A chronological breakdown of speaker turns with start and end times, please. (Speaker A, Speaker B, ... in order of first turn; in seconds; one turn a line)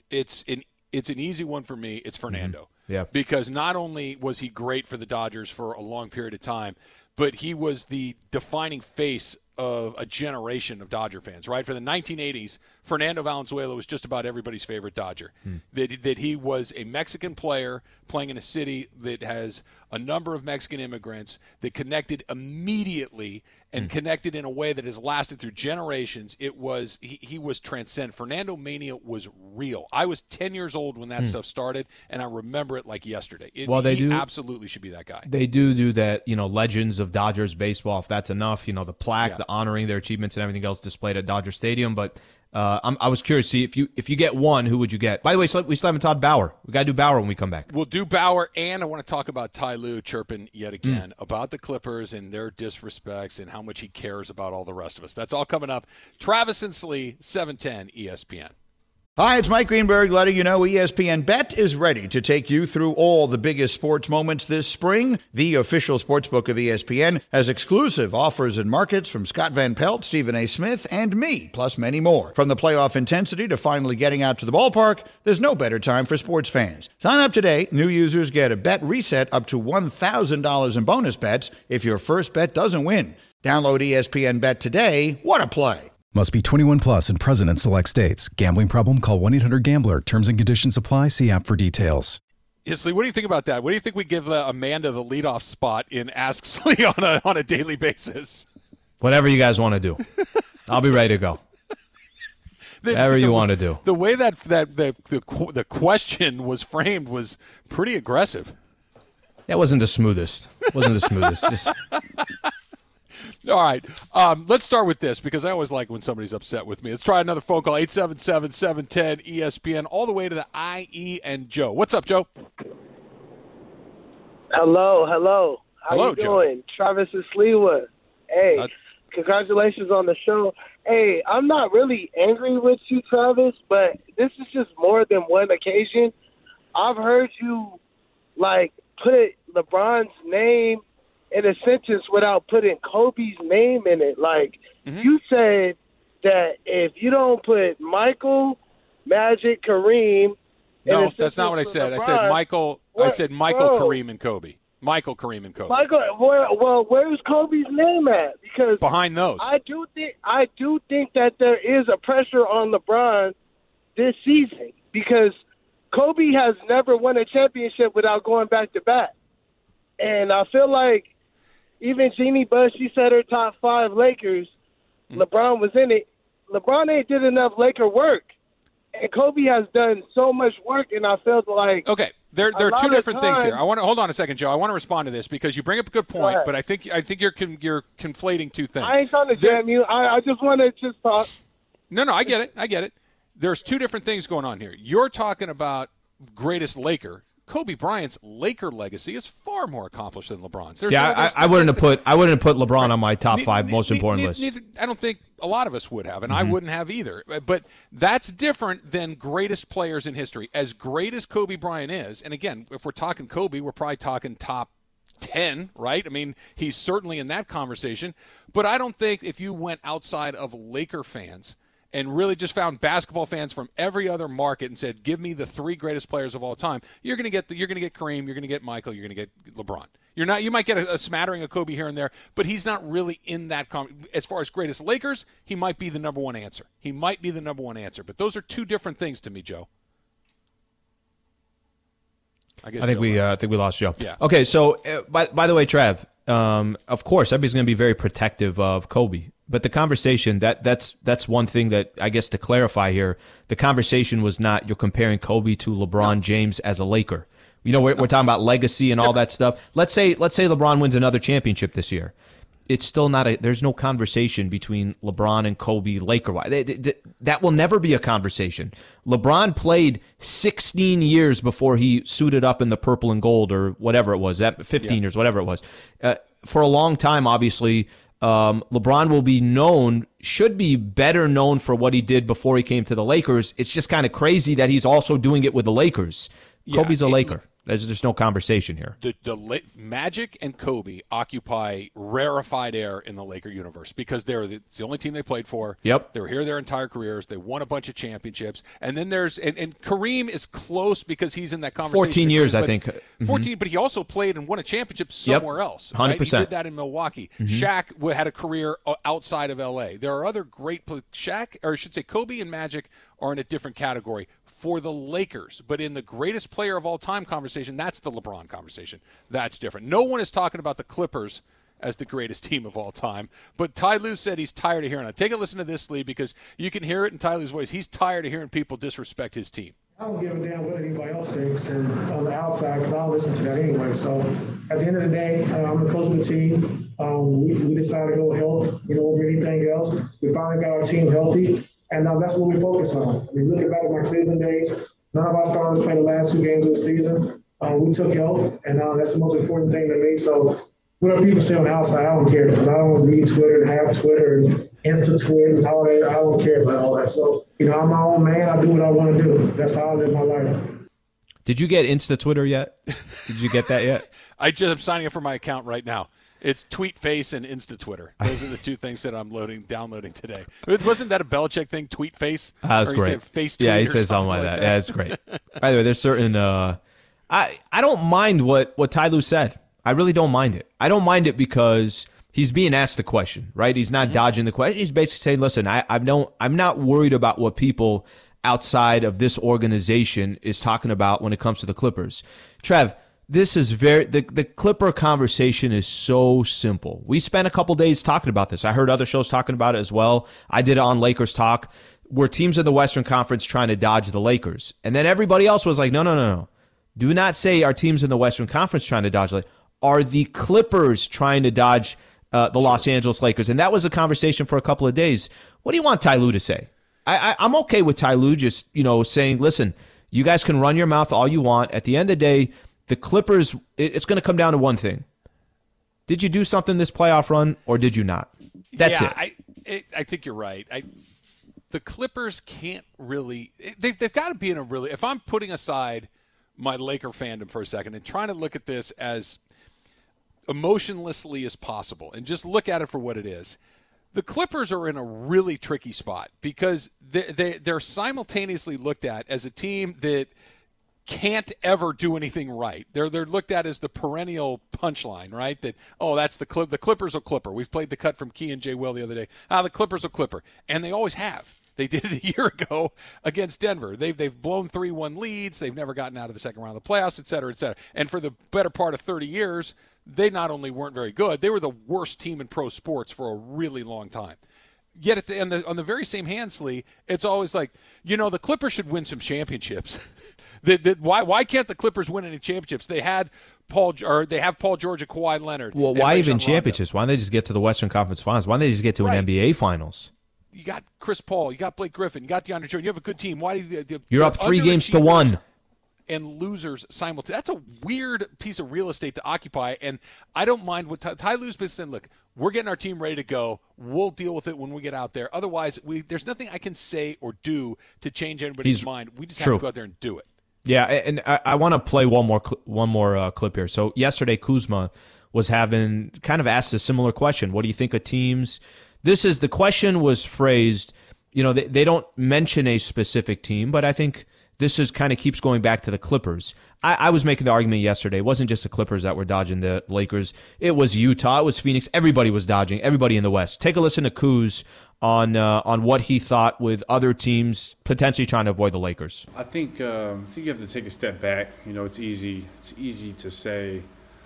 Speaker A: 0.1-35.3
Speaker B: 2.3-3.1
Speaker B: 33.7-34.3
Speaker B: 35.3-47.7
Speaker A: 47.7-58.5
Speaker C: 59.2-85.9
Speaker D: 86.1-92.2
Speaker A: 92.7-98.5
Speaker B: 99.0-100.0
Speaker B: 100.7-101.4
Speaker A: 102.8-108.5
Speaker B: 102.9-103.8
Speaker B: 109.5-111.8
Speaker A: 111.4-112.5
Speaker A: 113.4-122.3
Speaker E: 124.5-136.1
Speaker A: 125.9-126.4
Speaker E: 136.8-137.8
Speaker E: 138.4-152.4
Speaker A: 150.9-155.8
Speaker E: 152.9-154.0
Speaker E: 155.7-158.8
Speaker A: 158.8-159.5
Speaker E: 159.4-163.3
Speaker E: 164.0-165.3
Speaker E: 165.9-169.1
Speaker E: 170.0-171.1
Speaker E: 171.8-174.5
Speaker E: 175.1-178.3
Speaker E: 178.9-181.9
Speaker A: 181.8-189.6
Speaker E: 182.5-183.6
Speaker E: 186.1-186.5
Speaker E: 188.8-191.3
Speaker A: 191.9-202.0
Speaker B: 200.9-204.5
Speaker A: 202.8-239.7
Speaker B: 206.3-206.6
Speaker A: 242.6-243.3
Speaker B: 242.8-262.1
Speaker B: 262.7-289.0
Speaker A: 286.7-287.4
Speaker A: 289.0-329.7
Speaker B: 301.8-303.5
Speaker B: 305.2-306.5
Speaker B: 307.4-307.7
Speaker F: 330.0-360.8
Speaker B: 361.5-364.1
Speaker A: 364.4-375.4
Speaker B: 372.6-425.1
Speaker B: 426.1-429.2
Speaker A: 428.8-430.9
Speaker A: 431.7-439.4
Speaker A: 440.5-443.6
Speaker A: 444.1-450.3
Speaker A: 451.1-474.4
Speaker A: 475.0-480.0
Speaker A: 480.6-486.8
Speaker B: 485.7-490.1
Speaker A: 489.0-489.3
Speaker A: 490.5-495.4
Speaker B: 494.1-495.4
Speaker A: 496.1-510.3
Speaker B: 509.4-509.6
Speaker B: 510.6-539.3
Speaker G: 539.3-543.9